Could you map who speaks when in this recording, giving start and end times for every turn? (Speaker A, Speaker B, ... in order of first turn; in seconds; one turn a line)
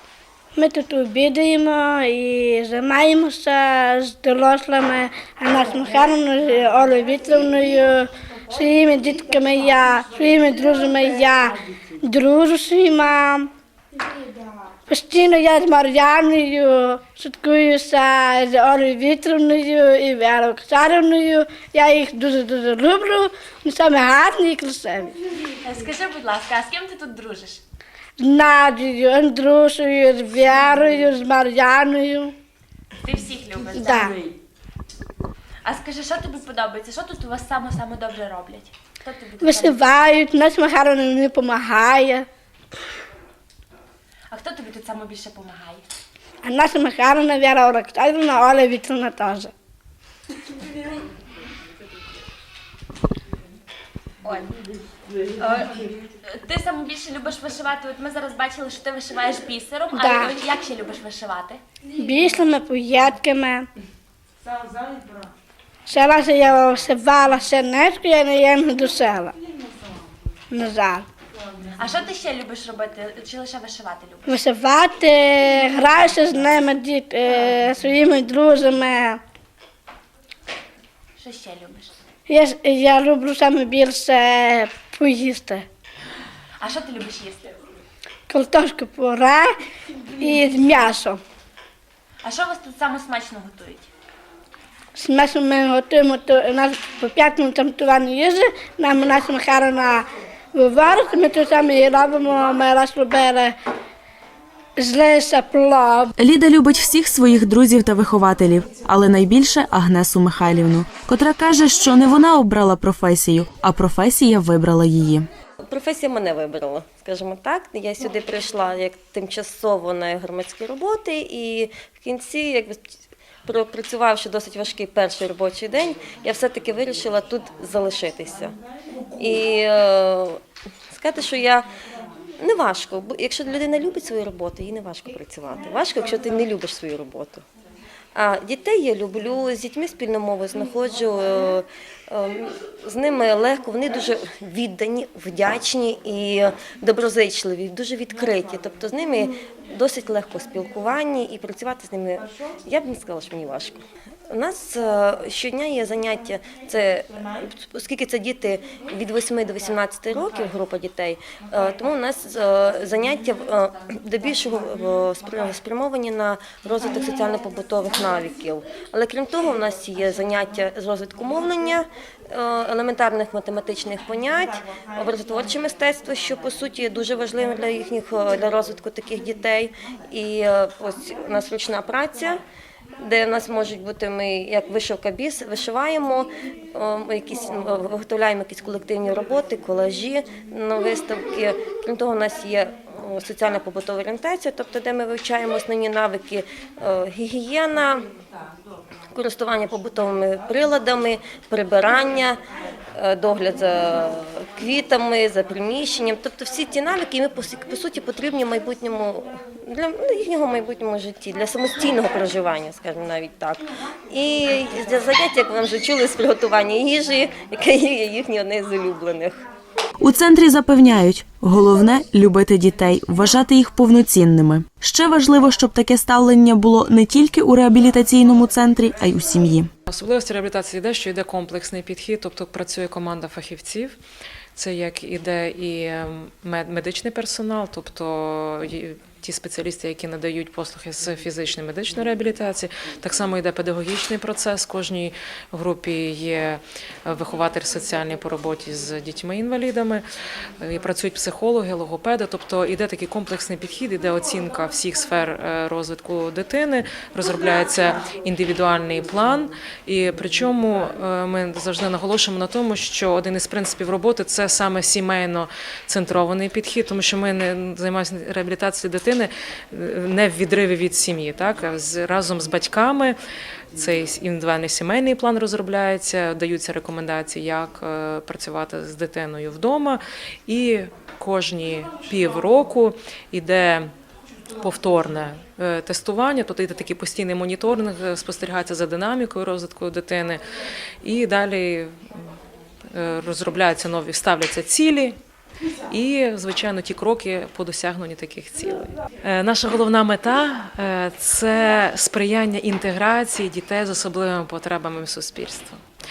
Speaker A: 0.6-13.5
Speaker A: 14.9-25.1
Speaker B: 25.6-27.6
Speaker A: 28.2-32.3
Speaker B: 33.0-34.4
Speaker A: 33.8-34.1
Speaker B: 35.6-39.8
Speaker A: 39.4-42.2
Speaker B: 44.3-45.8
Speaker A: 46.4-49.5
Speaker B: 54.2-54.5
Speaker B: 55.4-55.8
Speaker B: 56.3-61.6
Speaker A: 59.9-60.4
Speaker A: 62.0-63.7
Speaker A: 65.9-69.3
Speaker A: 70.5-71.0
Speaker B: 71.8-74.2
Speaker A: 74.2-79.2
Speaker B: 81.2-81.9
Speaker A: 82.3-85.6
Speaker B: 86.6-87.6
Speaker A: 88.3-89.5
Speaker A: 90.2-91.2
Speaker B: 92.2-93.9
Speaker A: 95.0-103.5
Speaker A: 104.8-106.1
Speaker C: 106.2-115.3
Speaker D: 115.6-122.8
Speaker D: 123.5-128.5
Speaker D: 129.2-130.4
Speaker D: 130.9-131.7
Speaker D: 132.4-137.4
Speaker D: 138.2-153.8
Speaker D: 154.3-182.4
Speaker D: 183.0-198.0
Speaker D: 199.1-202.4
Speaker D: 202.9-219.4
Speaker C: 220.0-229.7
Speaker E: 229.9-234.0
Speaker E: 234.5-250.0
Speaker E: 250.6-273.1
Speaker E: 273.7-283.9
Speaker E: 284.6-290.4
Speaker E: 291.0-291.9
Speaker E: 292.9-295.2
Speaker E: 295.9-305.8